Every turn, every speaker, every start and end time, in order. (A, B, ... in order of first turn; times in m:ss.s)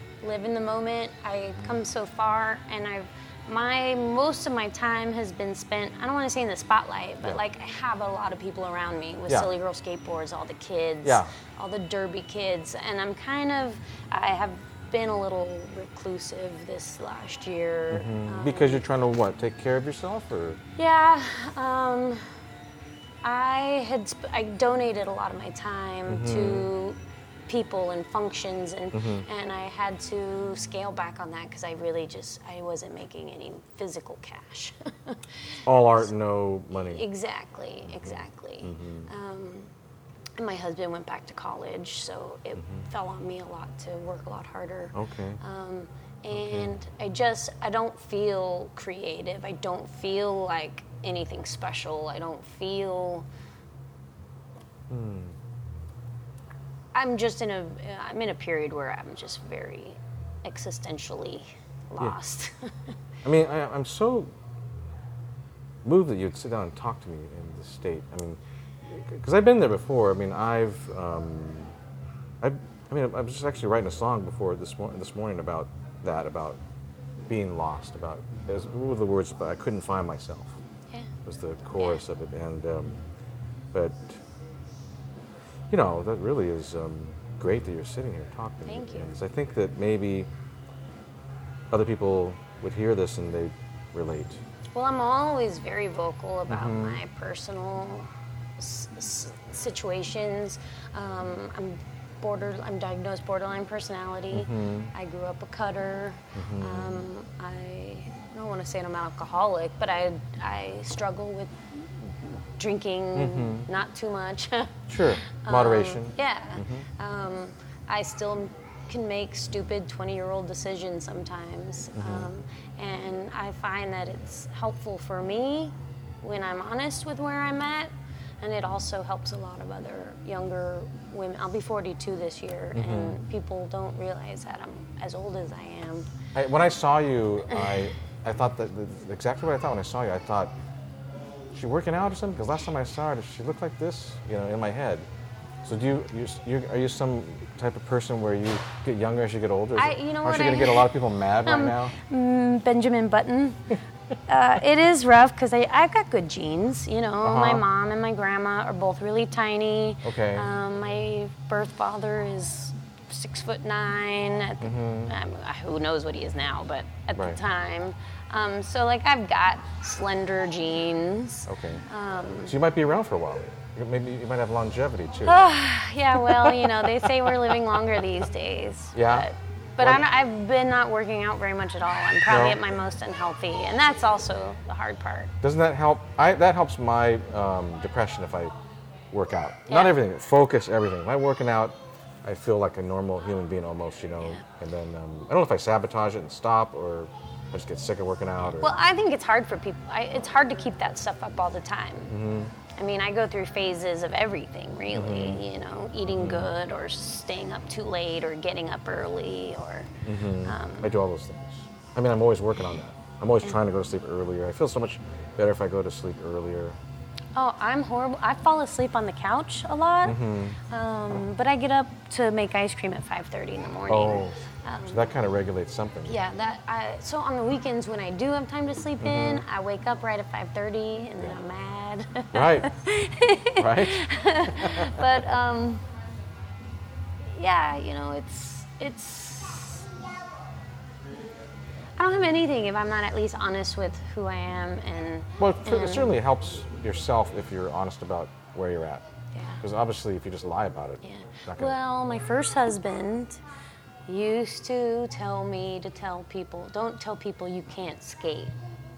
0:00.2-0:18.8 A
0:11.0-0:11.3 B
0:17.9-0:20.6 B
0:20.8-0:22.2 A
0:23.2-0:35.2 A
0:26.1-0:26.7 B
0:28.9-0:29.2 B
0:35.6-0:37.1 B
0:36.8-0:39.7 A
0:37.9-0:39.1 B
0:40.4-0:53.2 A
0:44.9-0:45.4 B
0:46.3-0:46.7 B
0:54.9-0:55.4 B
0:56.9-1:02.9 A
1:03.2-1:04.3 B
1:05.8-1:11.8 B
1:12.4-1:16.6 B
1:17.3-1:20.6 B
1:21.2-1:23.0 B
1:21.8-1:22.0 A
1:23.7-1:24.2 B
1:25.7-1:30.3 B
1:28.7-1:29.1 A
1:31.7-1:34.4 B
1:34.7-1:38.1 A
1:36.5-1:37.0 B
1:38.6-2:16.1 A
1:44.3-1:44.9 B
1:46.3-1:47.0 B
1:53.1-1:53.7 B
1:54.9-1:56.8 B
2:02.0-2:02.3 B
2:12.7-2:13.2 B
2:16.3-2:20.5 B
2:17.5-2:17.8 A
2:21.5-2:25.1 B
2:25.6-2:32.0 B
2:29.7-2:30.9 A
2:31.4-2:33.6 A
2:34.3-2:52.6 A
2:37.2-2:37.6 B
2:40.0-2:40.5 B
2:44.6-2:45.1 B
2:47.1-2:47.4 B
2:51.5-2:51.8 B
2:52.4-2:55.5 B
2:55.2-3:05.3 A
2:56.3-2:57.1 B
2:58.9-2:59.3 B
3:02.3-3:02.6 B
3:05.4-3:08.5 B
3:09.1-3:18.8 B
3:09.7-3:10.0 A
3:18.6-3:22.1 A
3:22.1-3:22.5 B
3:22.7-3:30.9 A
3:24.9-3:25.4 B
3:26.1-3:26.5 B
3:30.0-3:36.8 B
3:37.3-3:45.1 A
3:40.0-3:40.6 B
3:43.9-3:46.2 B
3:46.0-3:55.8 A
3:49.0-3:49.4 B
3:52.3-3:52.7 B
3:53.6-3:55.2 B
3:57.2-3:59.9 A
4:02.0-4:06.1 A
4:05.4-4:09.0 B
4:09.3-4:09.6 A
4:09.6-4:11.8 B
4:11.0-4:13.4 A
4:14.1-4:18.5 A